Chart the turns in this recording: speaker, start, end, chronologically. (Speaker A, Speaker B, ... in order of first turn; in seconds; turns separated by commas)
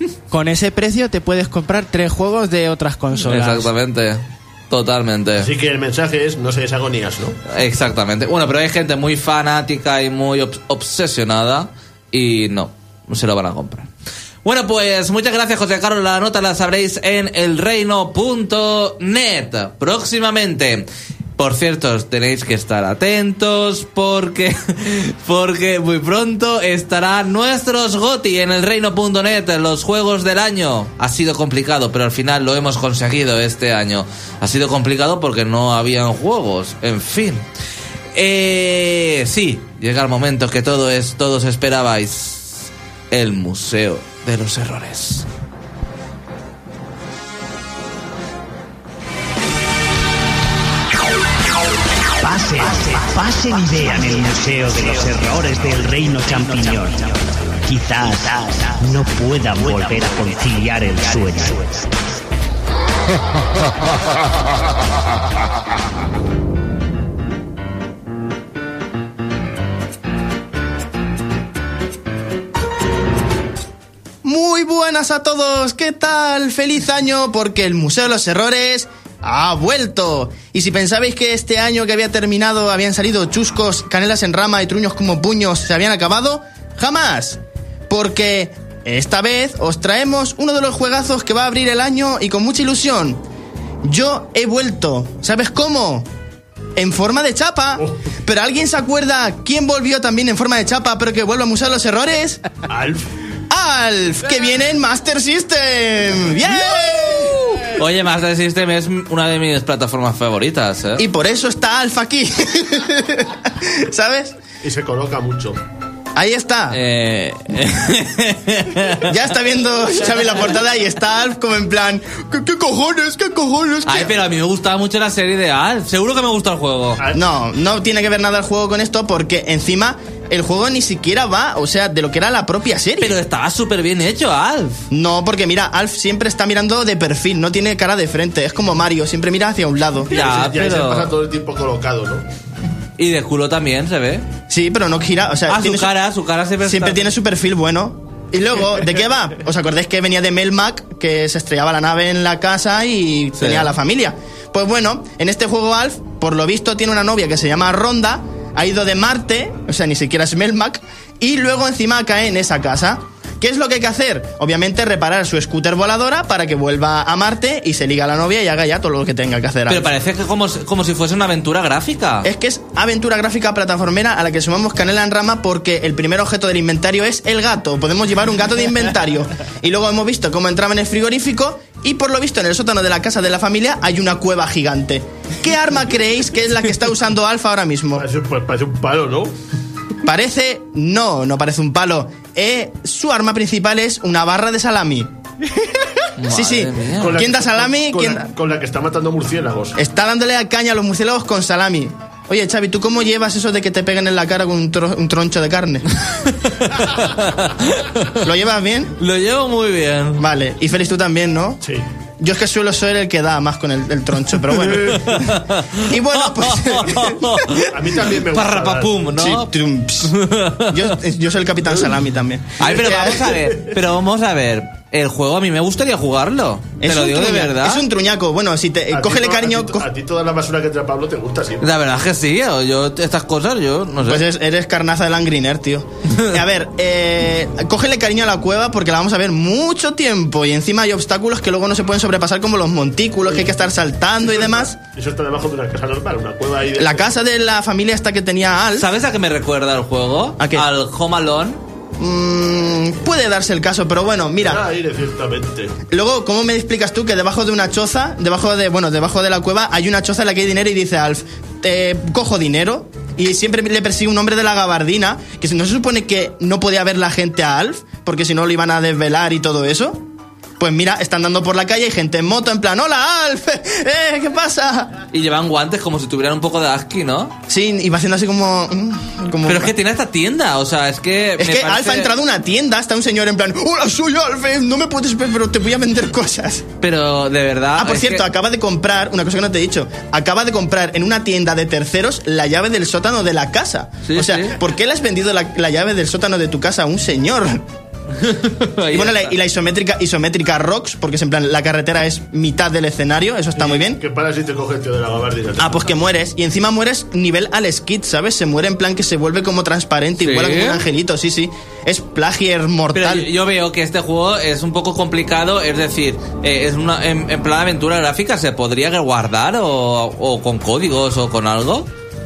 Speaker A: 0.3-3.7, Speaker B: 3.2-5.5, Speaker C: 5.4-7.4, Speaker B: 7.5-13.9, Speaker B: 14.4-37.5, Speaker B: 38.1-45.3, Speaker D: 52.2-62.0, Speaker E: 74.2-93.2, Speaker E: 93.8-96.1, Speaker E: 96.8-102.4, Speaker C: 102.7-103.1, Speaker E: 103.5-107.7, Speaker B: 107.8-111.0, Speaker E: 111.0-114.4, Speaker C: 114.6-115.6, Speaker E: 116.2-116.8, Speaker B: 116.7-119.1, Speaker E: 119.0-124.1, Speaker B: 123.9-127.0, Speaker E: 127.1-133.2, Speaker B: 133.0-134.8, Speaker E: 134.9-140.1, Speaker C: 140.1-142.3, Speaker B: 140.1-141.1, Speaker B: 143.0-144.2, Speaker E: 144.5-145.9, Speaker B: 145.5-147.1, Speaker E: 146.6-169.9, Speaker B: 153.4-153.7, Speaker B: 169.7-172.3, Speaker E: 172.2-188.1, Speaker C: 188.0-189.3, Speaker E: 190.0-195.1, Speaker B: 196.2-197.2, Speaker E: 196.2-198.3, Speaker C: 197.0-199.8, Speaker E: 199.8-205.9, Speaker B: 206.1-208.2, Speaker E: 208.2-209.0, Speaker B: 209.0-210.3, Speaker E: 210.2-211.6, Speaker E: 212.2-217.3, Speaker B: 215.0-219.5, Speaker C: 217.6-218.9, Speaker E: 219.2-223.3, Speaker B: 220.1-220.9, Speaker B: 222.6-227.8, Speaker C: 223.0-223.4, Speaker E: 226.8-229.9, Speaker C: 228.9-231.6, Speaker B: 231.6-234.2, Speaker E: 234.0-244.8, Speaker C: 243.3-243.6, Speaker C: 244.3-247.1, Speaker E: 246.8-248.9, Speaker B: 248.8-251.6, Speaker E: 250.4-250.7, Speaker E: 252.0-254.6, Speaker C: 254.4-255.7, Speaker E: 255.9-270.0, Speaker E: 270.6-275.0, Speaker B: 275.1-277.4, Speaker E: 277.5-279.7, Speaker B: 279.4-282.1, Speaker E: 281.4-286.7, Speaker B: 286.8-288.2, Speaker E: 287.8-297.6, Speaker B: 294.1-294.6, Speaker B: 298.2-299.3, Speaker E: 298.9-304.0, Speaker C: 303.6-305.8, Speaker E: 305.6-313.3, Speaker B: 310.2-310.8, Speaker B: 312.9-321.9